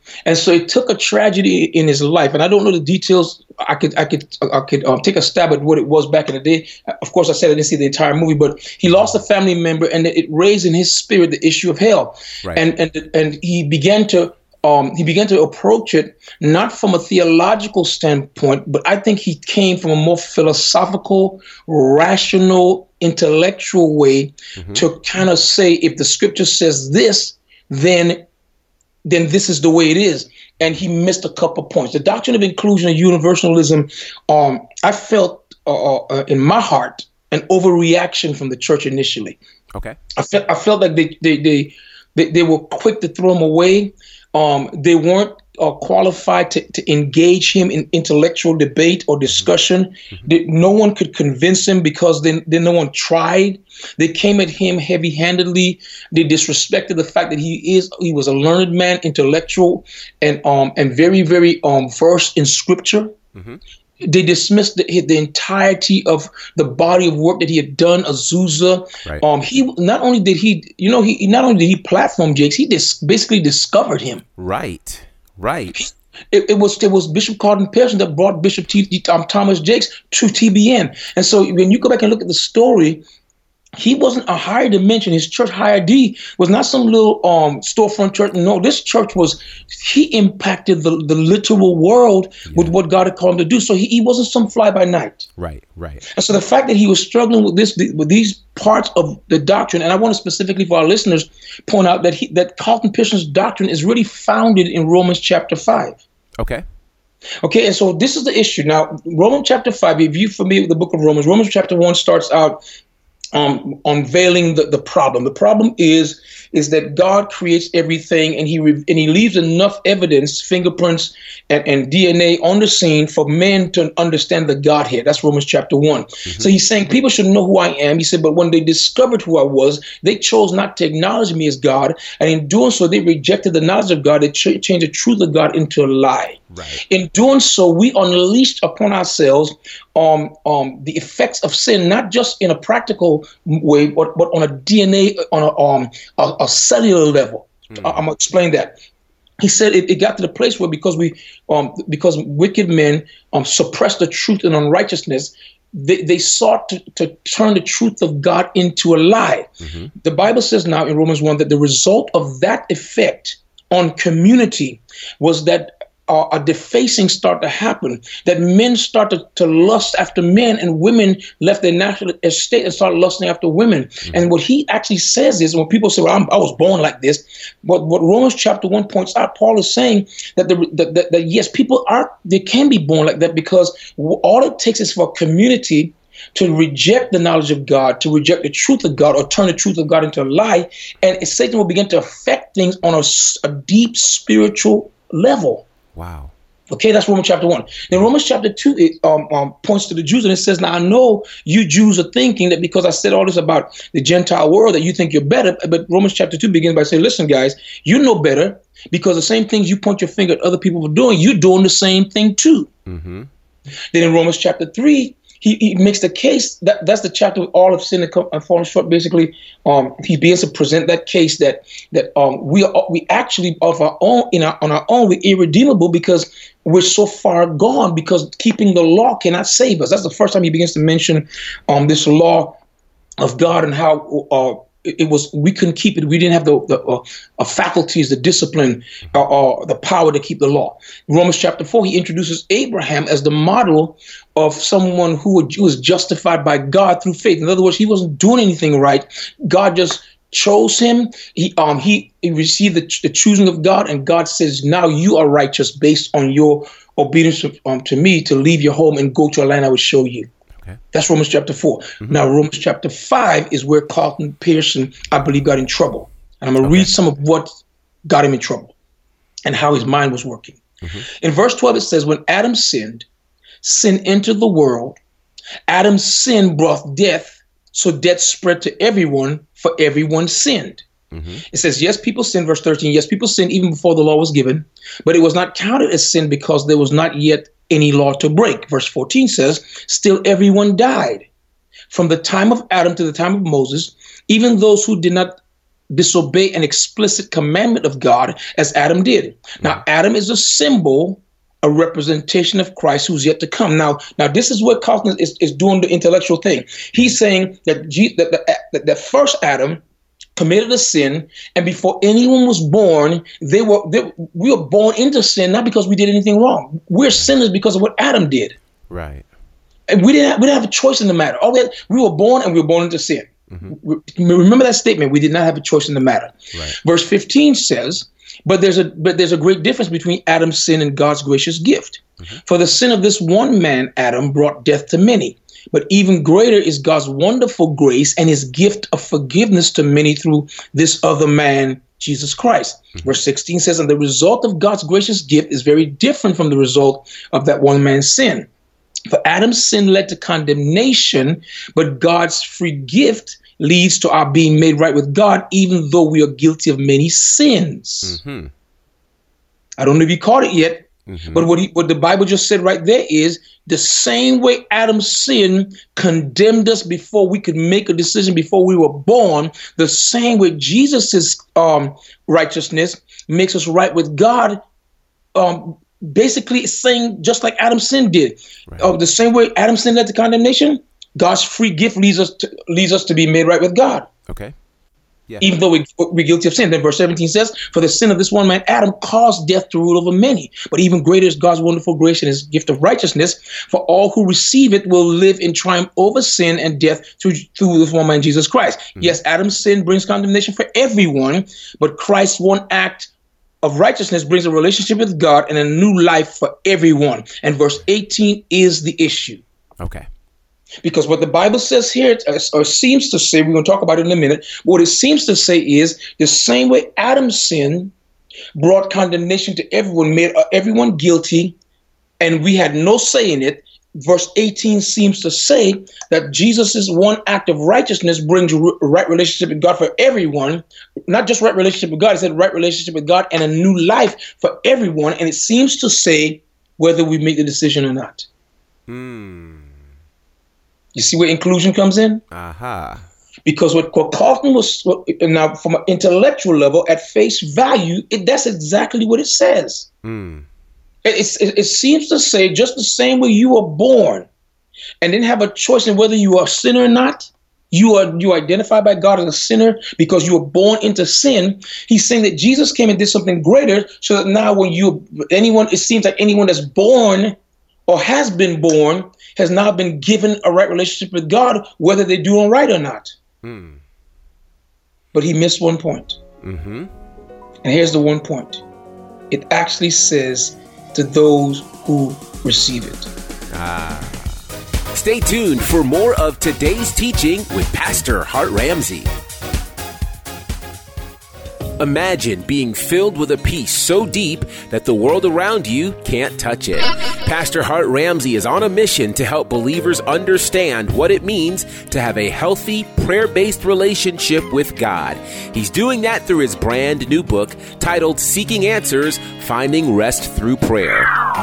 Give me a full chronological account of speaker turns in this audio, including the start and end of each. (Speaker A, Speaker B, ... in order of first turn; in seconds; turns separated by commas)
Speaker A: 0.2-28.2, Speaker B: 24.6-24.8, Speaker A: 29.0-39.4, Speaker A: 40.1-63.1, Speaker B: 63.3-63.6, Speaker A: 64.0-74.2, Speaker B: 74.4-75.8, Speaker A: 75.7-83.0, Speaker A: 83.8-95.2, Speaker B: 95.4-96.0, Speaker A: 96.1-106.0, Speaker A: 107.4-112.6, Speaker A: 113.3-148.8, Speaker B: 136.5-136.8, Speaker B: 147.7-148.0, Speaker A: 149.4-195.7, Speaker B: 159.6-159.9, Speaker B: 195.9-196.3, Speaker A: 196.7-212.7, Speaker B: 212.9-213.3, Speaker A: 213.9-232.6, Speaker A: 233.2-260.3, Speaker A: 260.9-267.5, Speaker B: 266.6-266.9, Speaker A: 268.0-268.7, Speaker A: 269.4-273.1, Speaker A: 273.6-275.0, Speaker A: 275.7-280.8, Speaker B: 281.1-281.4, Speaker A: 281.5-291.3, Speaker A: 291.9-295.4, Speaker A: 295.9-309.8, Speaker A: 310.4-318.6, Speaker B: 318.9-319.2, Speaker A: 319.9-348.5, Speaker B: 323.5-323.7, Speaker A: 349.1-358.2, Speaker B: 358.0-358.5, Speaker A: 359.8-374.6, Speaker B: 361.1-361.5, Speaker A: 375.3-384.1, Speaker B: 378.7-378.9, Speaker B: 384.3-384.5, Speaker A: 385.4-403.1, Speaker A: 403.6-409.4, Speaker B: 409.8-410.1, Speaker A: 410.8-417.9, Speaker A: 418.5-421.6, Speaker A: 422.2-438.3, Speaker B: 438.9-439.7, Speaker A: 440.9-442.2, Speaker B: 442.3-443.0, Speaker A: 443.4-449.9, Speaker B: 450.0-450.5, Speaker A: 451.0-454.3, Speaker A: 455.0-473.1, Speaker B: 473.4-473.8, Speaker A: 475.1-476.2, Speaker B: 476.4-476.9, Speaker A: 477.6-478.6, Speaker A: 479.3-483.1, Speaker B: 483.5-484.3, Speaker B: 484.9-489.1, Speaker B: 491.8-511.1